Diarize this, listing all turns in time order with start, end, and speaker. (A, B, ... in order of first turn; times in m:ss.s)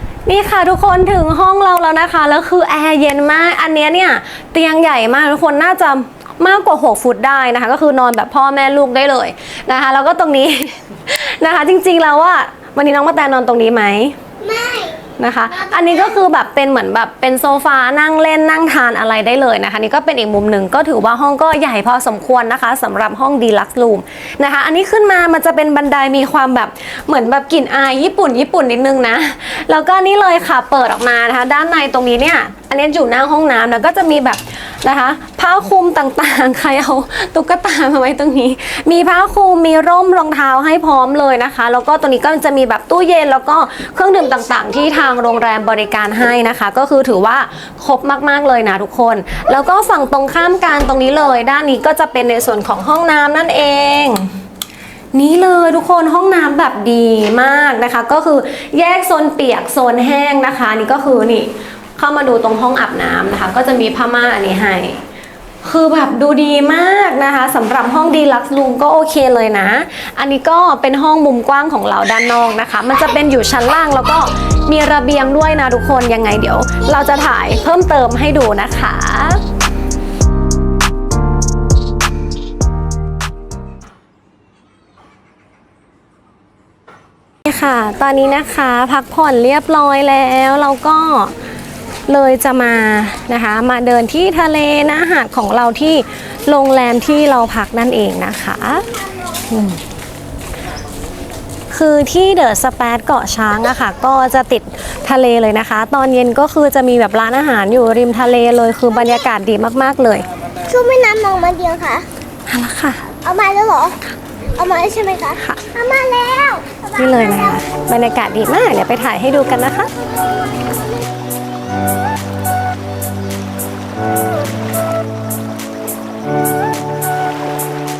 0:00.2-0:14.2 A
0:14.4-0:15.0 B
0:15.2-0:54.3 A
0:15.6-0:16.0 B
0:55.1-1:05.0 A
1:05.6-1:19.4 A
1:27.4-1:31.3 A
1:32.1-1:38.8 A
1:39.5-1:39.8 A
1:41.7-1:50.2 A
1:50.7-1:52.0 B
1:52.5-1:53.1 A
1:53.2-1:54.0 B
1:54.5-1:57.6 B
1:55.4-1:55.7 A
1:56.9-1:59.9 A